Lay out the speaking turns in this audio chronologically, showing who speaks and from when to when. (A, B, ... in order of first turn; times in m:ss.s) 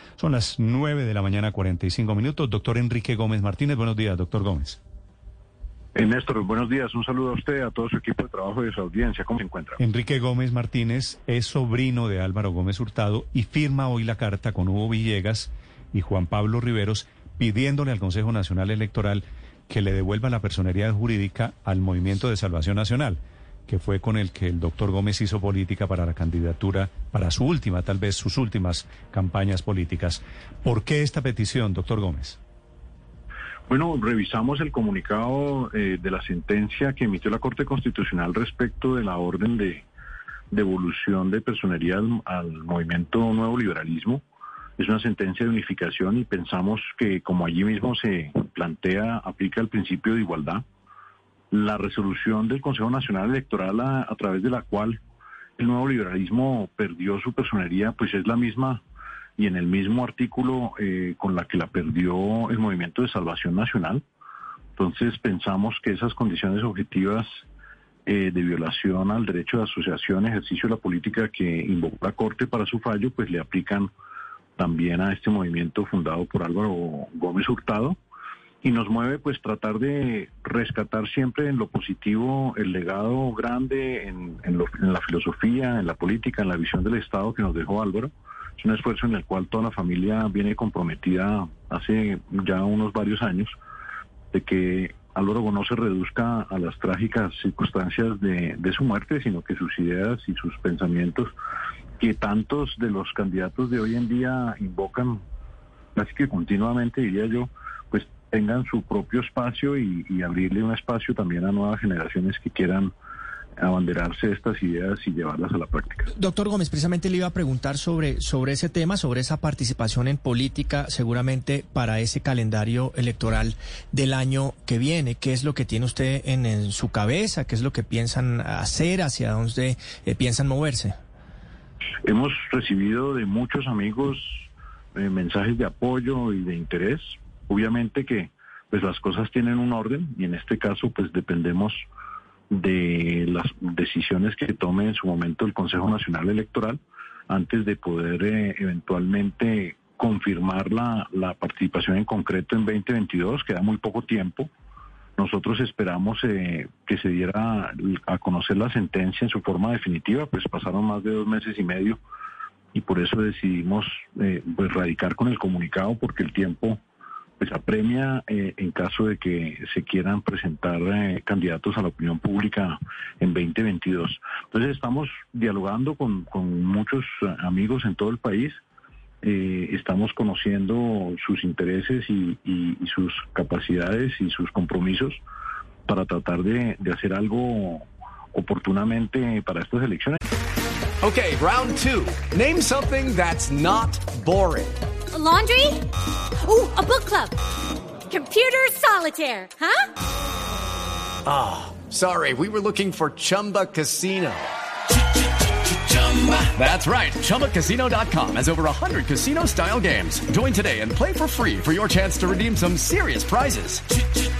0:00.2-0:04.8 A
0:05.9-0:09.8 B
0:09.8-0:32.4 A
0:33.7-0:39.8 B
0:40.5-0:44.2 B
0:44.8-0:50.6 B
0:51.5-0:55.0 B
0:55.6-0:58.8 B
0:59.4-1:04.0 B
1:04.8-1:07.4 B
1:08.0-1:13.9 B
1:14.6-1:18.0 B
1:18.6-1:33.5 B
1:34.3-1:41.3 B
1:42.0-1:45.2 B
1:46.0-1:52.9 B
1:53.6-1:56.1 B
1:56.2-2:10.9 C
2:12.0-2:21.8 B
2:22.5-2:34.5 B
2:35.2-2:42.0 B
2:42.7-2:46.8 B
2:47.4-2:58.6 B
2:59.2-3:05.2 B
3:05.9-3:10.2 B
3:11.0-3:14.8 D
3:15.1-3:15.8 E
3:16.4-3:17.3 E
3:18.1-3:19.8 E
3:21.2-3:24.5 D
3:25.6-3:34.0 D